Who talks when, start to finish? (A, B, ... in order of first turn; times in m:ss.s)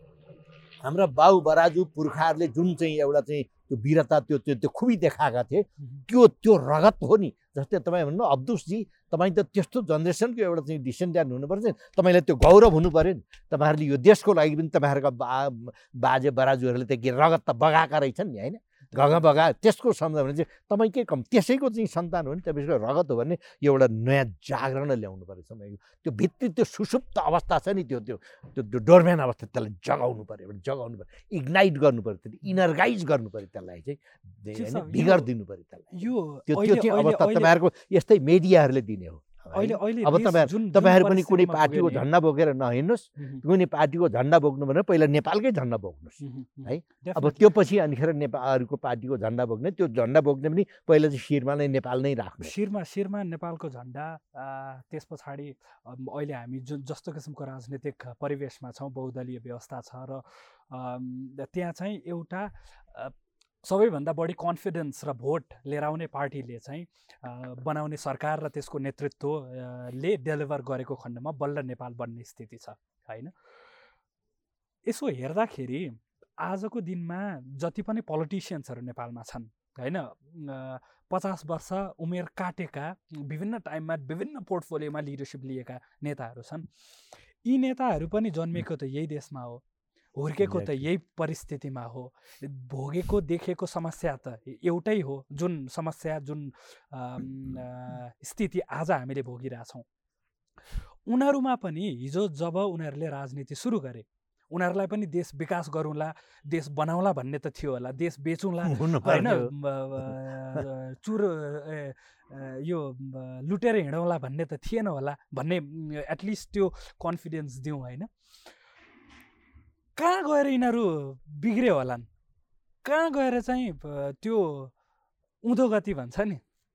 0:00.8-0:35.9 A
0:34.5-0:35.3 B
0:35.9-0:37.5 B
0:36.5-0:52.5 A
0:39.5-0:42.1 B
0:46.2-0:47.5 B
0:52.4-1:13.3 B
1:14.9-1:26.7 B
1:27.4-1:29.6 B
1:30.2-1:39.9 B
1:30.4-1:30.9 A
1:41.1-1:58.1 B
1:48.6-1:49.5 A
1:50.0-1:50.6 A
2:00.0-2:02.1 B
2:02.8-2:04.7 B
2:05.4-2:06.4 B